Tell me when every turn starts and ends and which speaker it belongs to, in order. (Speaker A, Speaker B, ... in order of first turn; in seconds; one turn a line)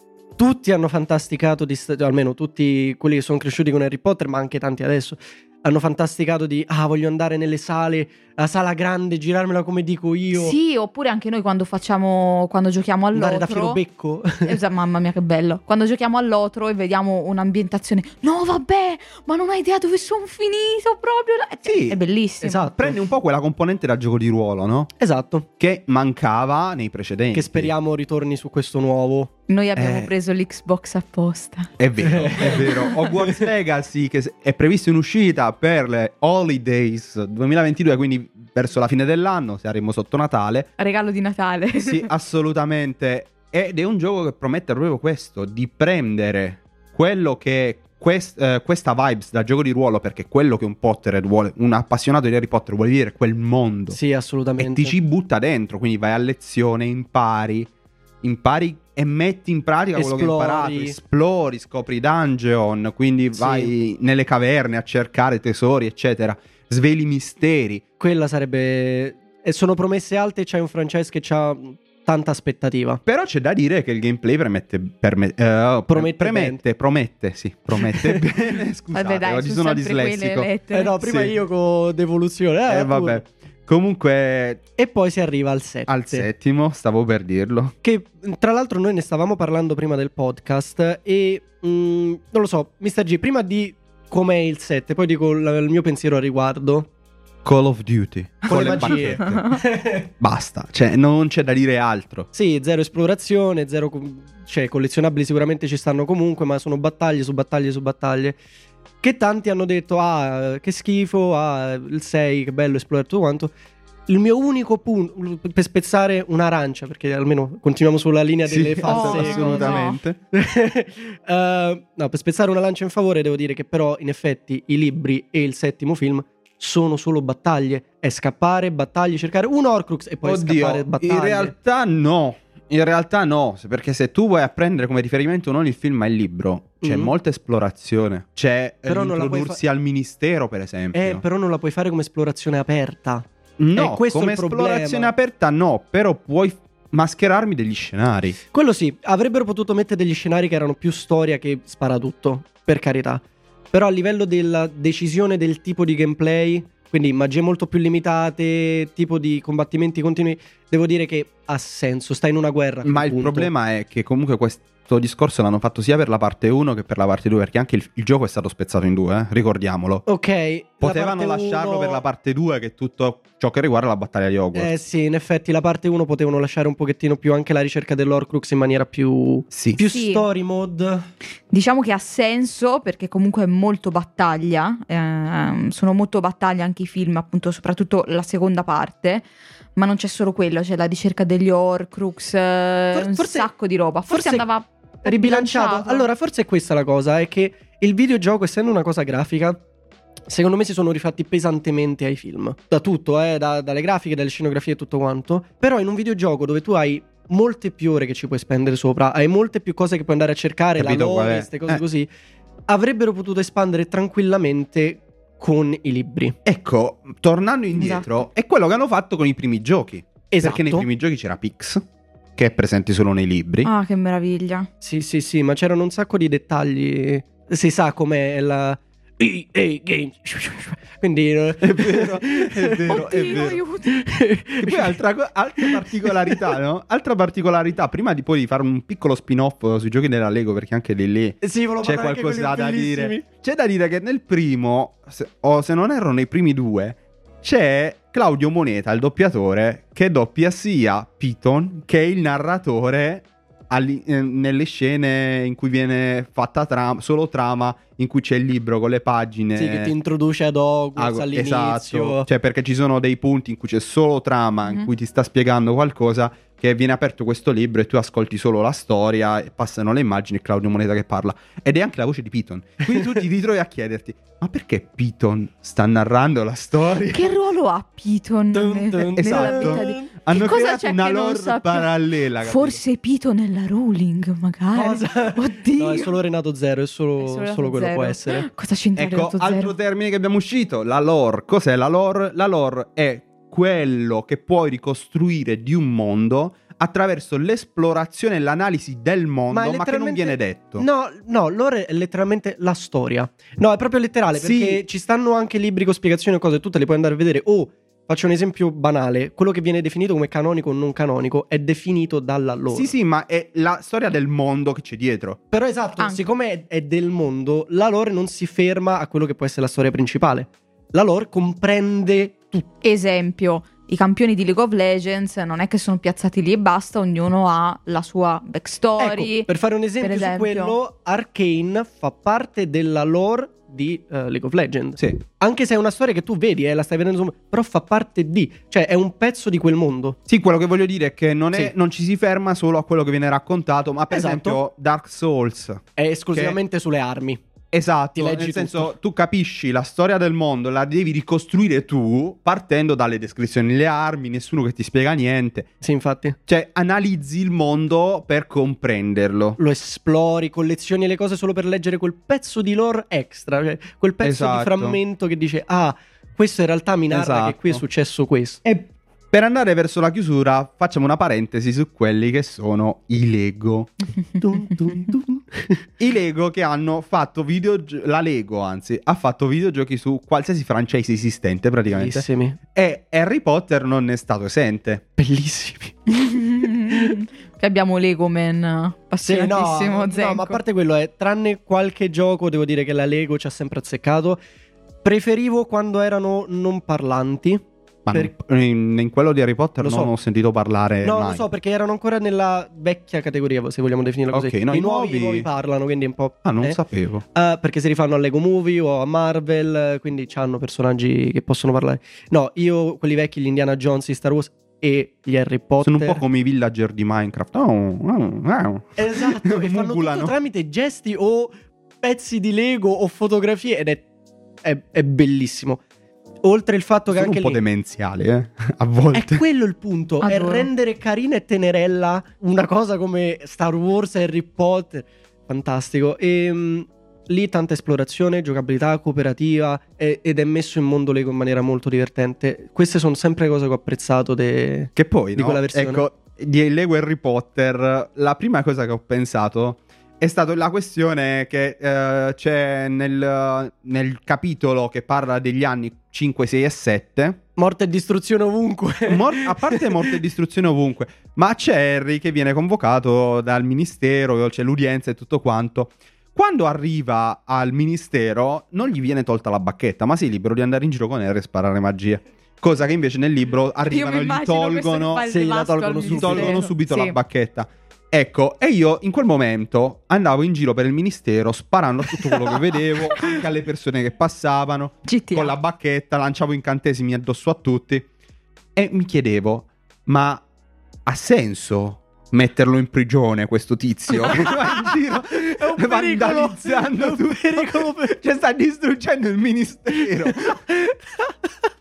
Speaker A: 0.4-10.6
Speaker B: 10.3-13.8
Speaker A: 13.1-14.6
Speaker B: 14.4-22.7
Speaker C: 21.6-22.0
Speaker A: 22.4-23.0
Speaker C: 22.8-24.9
Speaker A: 25.0-25.5
Speaker C: 25.6-27.7
Speaker A: 27.3-29.3
Speaker B: 29.5-31.7
Speaker C: 29.8-30.1
Speaker C: 31.8-40.7
Speaker A: 32.0-33.5
Speaker B: 40.8-42.1
Speaker C: 41.8-54.0
Speaker A: 53.9-55.0
Speaker C: 54.6-57.7
Speaker C: 58.2-67.8
Speaker A: 60.0-61.0
Speaker A: 63.3-63.7
Speaker A: 68.0-73.0
Speaker C: 73.1-80.5
Speaker A: 75.9-76.6
Speaker A: 77.8-78.3
Speaker B: 78.9-81.0
Speaker A: 80.7-83.2
Speaker C: 81.0-81.4
Speaker C: 82.7-84.6
Speaker A: 84.8-86.3
Speaker C: 85.9-87.8
Speaker A: 87.8-96.9
Speaker C: 97.4-99.6
Speaker A: 98.5-100.1
Speaker B: 98.9-99.4
Speaker C: 100.2-102.3
Speaker A: 102.3-108.4
Speaker A: 109.0-113.5
Speaker A: 114.1-131.5
Speaker C: 118.5-120.2
Speaker B: 118.8-120.0
Speaker C: 130.2-141.2
Speaker A: 136.8-137.1
Speaker A: 138.9-139.6
Speaker A: 140.9-145.1
Speaker C: 143.6-148.4
Speaker A: 148.5-163.5
Speaker C: 162.8-170.0
Speaker A: 170.1-172.0
Speaker C: 170.8-174.7
Speaker A: 174.5-181.1
Speaker C: 179.5-179.8
Speaker B: 179.8-180.3
Speaker B: 181.5-189.2
Speaker B: 189.8-196.1
Speaker A: 192.9-193.5
Speaker A: 194.1-194.5
Speaker A: 195.0-199.6
Speaker A: 200.3-212.1
Speaker C: 210.8-211.8
Speaker A: 212.7-216.4
Speaker C: 216.4-221.8
Speaker B: 217.8-218.1
Speaker A: 220.3-220.9
Speaker C: 222.4-223.7
Speaker B: 223.6-224.7
Speaker A: 224.8-235.0
Speaker C: 231.6-233.6
Speaker B: 232.9-234.1
Speaker C: 234.6-259.9
Speaker A: 235.6-236.5
Speaker A: 241.4-243.2
Speaker A: 259.6-262.3
Speaker C: 261.0-277.4
Speaker B: 277.1-286.1
Speaker A: 278.5-280.1
Speaker C: 279.2-282.8
Speaker A: 284.7-288.5
Speaker B: 287.2-289.7
Speaker C: 289.0-300.9
Speaker A: 299.5-312.9
Speaker C: 304.3-304.8
Speaker C: 312.7-315.4
Speaker A: 315.5-322.7
Speaker B: 316.0-316.2
Speaker B: 322.8-329.5
Speaker A: 329.0-340.2
Speaker B: 330.0-330.8
Speaker C: 340.3-346.6
Speaker A: 344.1-344.6
Speaker A: 346.0-347.4
Speaker C: 347.7-355.7
Speaker A: 348.1-348.9
Speaker A: 355.8-356.4
Speaker C: 356.5-359.6
Speaker A: 359.6-368.6
Speaker C: 364.2-365.0
Speaker C: 367.1-367.8
Speaker C: 368.6-374.0
Speaker A: 374.4-375.8
Speaker C: 376.0-385.1
Speaker A: 381.9-382.6
Speaker A: 385.2-386.0
Speaker B: 386.1-390.6
Speaker A: 386.9-387.2
Speaker A: 389.2-394.4
Speaker A: 395.0-398.3
Speaker C: 398.1-401.5
Speaker A: 399.8-400.1
Speaker A: 401.0-406.8
Speaker C: 404.3-405.5
Speaker C: 406.4-407.2
Speaker A: 407.3-416.2
Speaker C: 415.8-420.4
Speaker A: 419.0-424.1
Speaker A: 424.6-425.8
Speaker A: 426.4-427.6
Speaker C: 427.1-429.4
Speaker A: 429.1-446.1
Speaker B: 430.2-430.7
Speaker C: 445.0-457.4
Speaker A: 457.6-460.2
Speaker C: 459.1-475.3
Speaker B: 473.9-477.2
Speaker A: 475.2-476.7
Speaker C: 476.1-488.1
Speaker A: 482.1-482.5
Speaker B: 485.1-485.5
Speaker C: 488.8-490.4
Speaker C: 491.1-500.6
Speaker A: 494.1-498.2
Speaker A: 500.0-500.9